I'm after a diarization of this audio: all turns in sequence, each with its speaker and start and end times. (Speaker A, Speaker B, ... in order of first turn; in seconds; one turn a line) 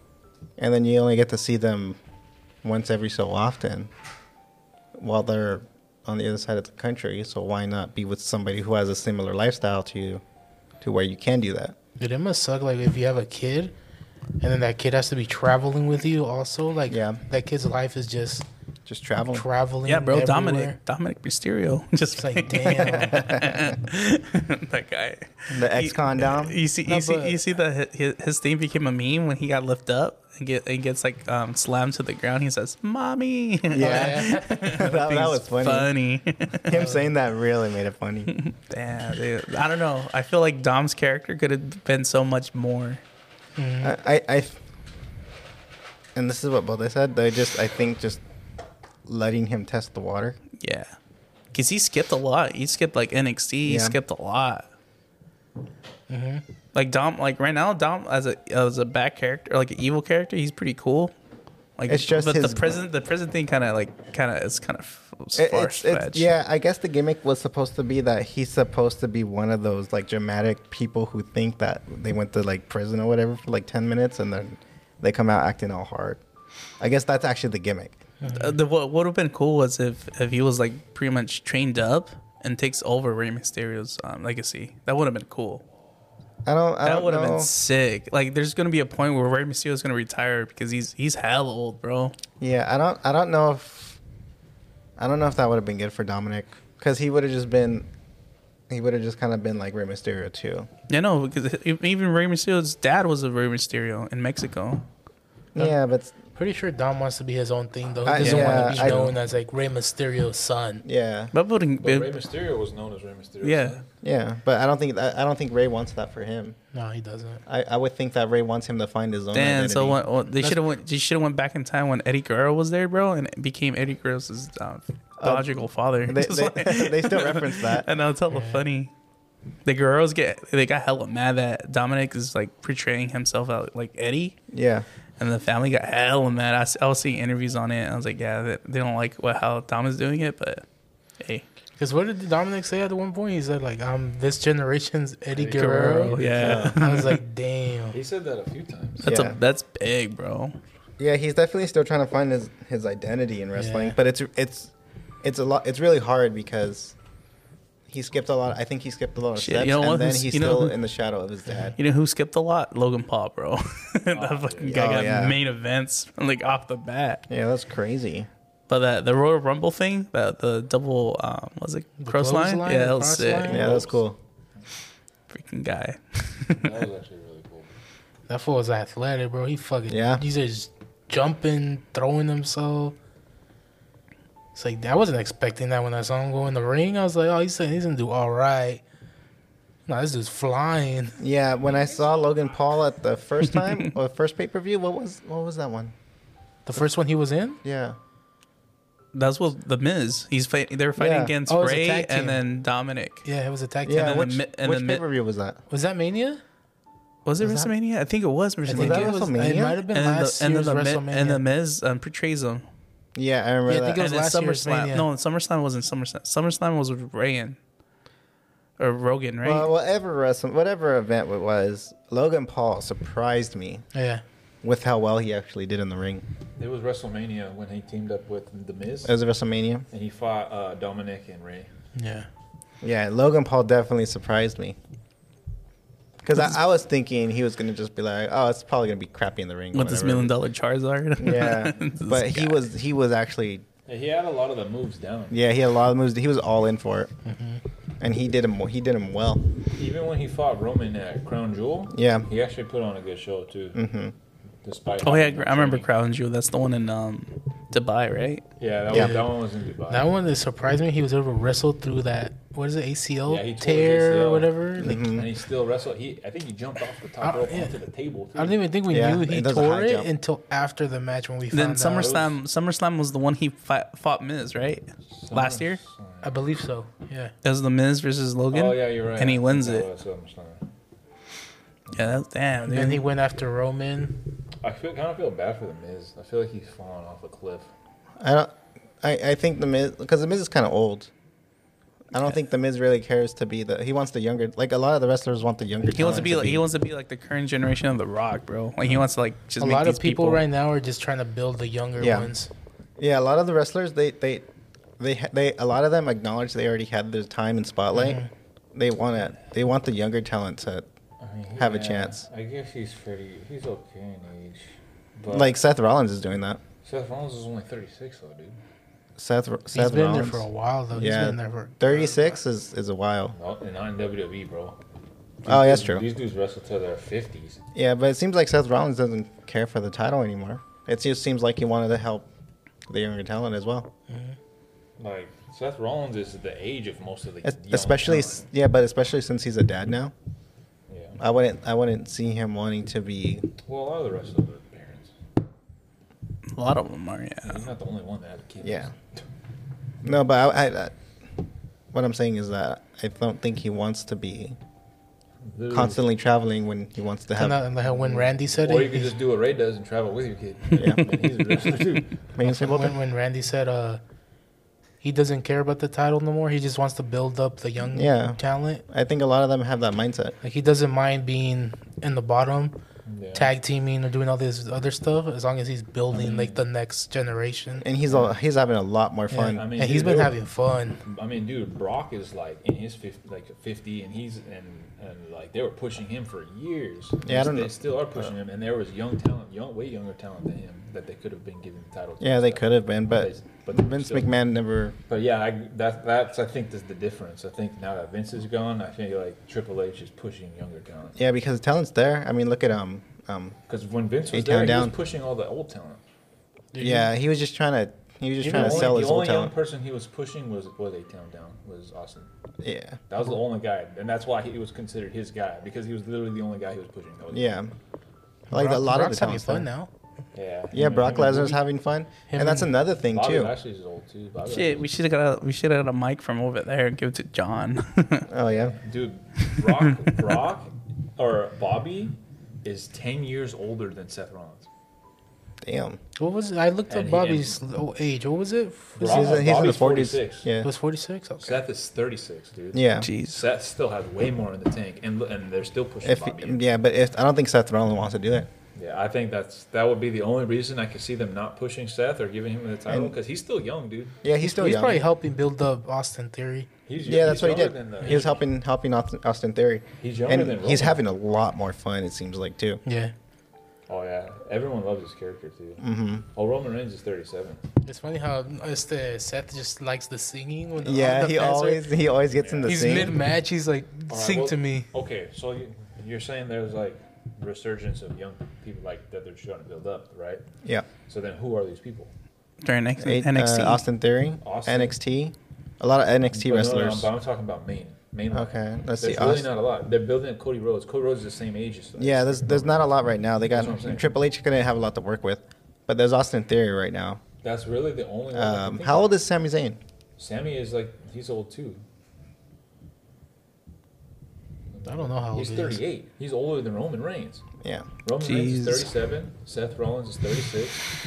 Speaker A: 0.6-2.0
Speaker A: 2.6-3.9
Speaker A: 5.0-10.2
Speaker A: 10.8-11.8
Speaker B: 12.0-13.7
Speaker B: 14.4-18.5
Speaker A: 16.9-17.2
Speaker A: 18.9-19.5
Speaker B: 19.3-20.8
Speaker C: 19.9-36.8
Speaker B: 22.2-23.3
Speaker A: 22.9-23.8
Speaker A: 25.5-26.6
Speaker B: 26.9-27.4
Speaker A: 33.7-35.9
Speaker B: 33.8-34.6
Speaker A: 36.6-38.3
Speaker B: 36.7-37.1
Speaker C: 38.3-43.0
Speaker B: 43.6-44.0
Speaker A: 43.8-44.6
Speaker A: 46.1-48.2
Speaker A: 49.1-50.4
Speaker C: 50.6-50.9
Speaker C: 51.5-54.7
Speaker A: 53.6-54.0
Speaker B: 56.1-56.4
Speaker C: 56.7-61.1
Speaker C: 61.8-66.3
Speaker A: 61.9-62.8
Speaker A: 65.4-76.2
Speaker A: 76.8-78.0
Speaker B: 78.2-78.6
Speaker C: 78.2-85.6
Speaker A: 86.5-87.5
Speaker C: 86.8-92.2
Speaker A: 92.4-94.0
Speaker A: 95.0-97.9
Speaker A: 98.7-100.7
Speaker C: 100.9-104.8
Speaker A: 105.5-106.1
Speaker B: 106.4-110.8
Speaker A: 108.1-109.2
Speaker C: 108.2-108.9
Speaker A: 110.8-111.3
Speaker C: 111.3-112.1
Speaker D: 111.8-113.8
Speaker C: 113.4-113.8
Speaker A: 114.0-116.6
Speaker B: 116.7-117.4
Speaker A: 117.5-120.0
Speaker C: 119.3-128.9
Speaker A: 125.2-127.9
Speaker B: 128.3-128.6
Speaker C: 129.7-134.4
Speaker A: 134.5-134.9
Speaker C: 135.2-140.7
Speaker C: 141.2-141.5
Speaker B: 141.8-148.0
Speaker D: 145.3-146.6
Speaker C: 145.5-147.2
Speaker A: 146.4-146.8
Speaker D: 147.9-149.1
Speaker C: 149.0-150.6
Speaker A: 149.0-149.4
Speaker A: 151.0-154.7
Speaker B: 153.6-154.0
Speaker A: 155.2-157.0
Speaker A: 157.9-161.8
Speaker C: 159.4-160.8
Speaker C: 161.8-167.2
Speaker D: 164.1-164.9
Speaker A: 164.7-165.4
Speaker A: 167.3-168.3
Speaker C: 168.7-173.6
Speaker B: 172.0-173.8
Speaker A: 173.5-174.2
Speaker D: 173.5-174.0
Speaker C: 175.3-176.7
Speaker D: 176.6-177.7
Speaker B: 178.3-183.0
Speaker A: 179.9-180.2
Speaker B: 184.6-188.8
Speaker B: 189.9-191.2
Speaker A: 191.2-195.9
Speaker B: 196.7-197.6
Speaker A: 197.6-198.0
Speaker C: 199.1-203.2
Speaker A: 201.0-201.3
Speaker B: 201.5-202.4
Speaker B: 203.2-204.2
Speaker A: 203.8-205.6
Speaker C: 203.9-205.0
Speaker B: 205.7-206.4
Speaker C: 207.3-209.2
Speaker A: 207.4-207.7
Speaker B: 208.7-211.4
Speaker A: 208.7-209.8
Speaker C: 209.9-212.7
Speaker A: 213.2-214.0
Speaker B: 213.7-215.1
Speaker C: 214.0-217.6
Speaker C: 218.8-219.7
Speaker A: 219.4-223.8
Speaker B: 223.9-224.2
Speaker A: 224.6-226.2
Speaker D: 226.6-229.2
Speaker A: 229.1-229.9
Speaker D: 229.9-231.7
Speaker B: 231.9-232.3
Speaker A: 232.8-234.8
Speaker A: 236.2-240.3
Speaker C: 239.7-242.6
Speaker A: 241.2-243.7
Speaker D: 243.9-245.4
Speaker A: 245.3-247.1
Speaker B: 247.2-247.6
Speaker A: 248.0-249.5
Speaker D: 249.7-253.8
Speaker A: 251.9-252.3
Speaker A: 253.8-254.1
Speaker D: 254.6-255.9
Speaker C: 255.0-258.4
Speaker D: 258.6-260.1
Speaker B: 258.9-259.3
Speaker A: 258.9-259.2
Speaker B: 259.9-265.0
Speaker D: 263.3-268.6
Speaker A: 264.8-265.3
Speaker B: 267.2-267.8
Speaker B: 268.4-272.2
Speaker A: 268.9-270.1
Speaker C: 271.5-275.8
Speaker D: 272.0-272.4
Speaker D: 275.1-276.3
Speaker B: 276.2-277.3
Speaker C: 277.4-279.9
Speaker D: 278.5-280.6
Speaker D: 281.9-282.2
Speaker C: 281.9-283.0
Speaker B: 282.7-284.2
Speaker D: 284.6-287.7
Speaker A: 288.2-288.5
Speaker A: 289.0-291.1
Speaker A: 292.1-296.6
Speaker C: 295.9-300.4
Speaker B: 299.6-302.5
Speaker A: 302.0-302.3
Speaker A: 303.0-304.5
Speaker A: 305.0-310.9
Speaker B: 307.9-308.3
Speaker D: 311.2-315.5
Speaker A: 311.6-312.3
Speaker A: 315.3-316.6
Speaker D: 316.8-318.6
Speaker A: 319.2-323.4
Speaker B: 319.7-322.2
Speaker D: 323.3-324.8
Speaker D: 325.4-327.6
Speaker A: 325.5-326.1
Speaker A: 327.7-332.3
Speaker A: 332.9-333.9
Speaker B: 334.1-334.4
Speaker D: 335.0-338.5
Speaker A: 337.4-340.1
Speaker D: 340.9-341.2
Speaker A: 341.2-343.5
Speaker D: 343.6-345.1
Speaker C: 346.5-347.6
Speaker D: 347.4-349.2
Speaker A: 348.6-348.9
Speaker A: 350.0-351.0
Speaker A: 351.9-354.6
Speaker D: 355.4-356.0
Speaker A: 355.7-357.6
Speaker B: 357.4-359.1
Speaker D: 357.9-362.2
Speaker A: 360.8-361.1
Speaker A: 362.4-363.0
Speaker B: 362.4-364.0
Speaker B: 365.0-368.8
Speaker A: 367.9-370.4
Speaker B: 370.4-372.8
Speaker D: 373.1-373.5
Speaker B: 373.3-377.9
Speaker D: 376.1-376.6
Speaker A: 377.8-379.6
Speaker D: 378.1-378.4
Speaker B: 379.3-381.0
Speaker D: 379.5-380.4
Speaker D: 381.0-394.3
Speaker A: 387.2-388.3
Speaker A: 392.2-395.0
Speaker D: 395.1-401.2
Speaker A: 401.2-403.6
Speaker D: 403.7-406.0
Speaker A: 404.3-404.9
Speaker B: 406.7-407.1
Speaker A: 406.8-409.5
Speaker B: 408.4-409.0
Speaker D: 408.4-412.3
Speaker A: 412.6-413.0
Speaker D: 413.1-417.7
Speaker A: 417.3-417.7
Speaker B: 418.5-419.9
Speaker A: 418.5-419.7
Speaker D: 420.3-421.6
Speaker A: 420.7-423.5
Speaker B: 422.3-422.7
Speaker D: 423.1-424.9
Speaker C: 424.5-428.3
Speaker A: 428.3-428.8
Speaker D: 428.4-434.7
Speaker A: 435.6-436.0
Speaker B: 436.2-439.7
Speaker D: 436.9-437.6
Speaker D: 439.0-440.5
Speaker A: 439.0-440.7
Speaker B: 440.6-441.6
Speaker D: 441.4-446.7
Speaker A: 442.7-443.1
Speaker C: 443.0-443.4
Speaker A: 446.0-448.5
Speaker D: 448.8-454.2
Speaker A: 452.9-453.2
Speaker A: 454.2-455.1
Speaker B: 454.4-456.7
Speaker D: 456.9-458.4
Speaker A: 457.0-462.8
Speaker B: 458.0-458.3
Speaker D: 460.0-461.0
Speaker B: 462.9-463.1
Speaker D: 463.9-467.6
Speaker A: 465.8-466.2
Speaker B: 467.9-471.9
Speaker A: 470.8-473.2
Speaker D: 472.4-473.0
Speaker B: 472.7-474.9
Speaker D: 474.1-480.4
Speaker D: 481.1-482.1
Speaker C: 482.6-483.8
Speaker A: 483.0-487.1
Speaker D: 484.4-484.9
Speaker D: 486.3-492.9
Speaker A: 488.3-489.5
Speaker A: 492.0-497.2
Speaker D: 493.5-494.1
Speaker D: 497.4-499.1
Speaker A: 498.3-499.8
Speaker D: 500.2-501.8
Speaker D: 504.7-507.4
Speaker B: 504.9-505.8
Speaker A: 507.6-507.9
Speaker D: 508.0-510.9
Speaker C: 508.2-508.9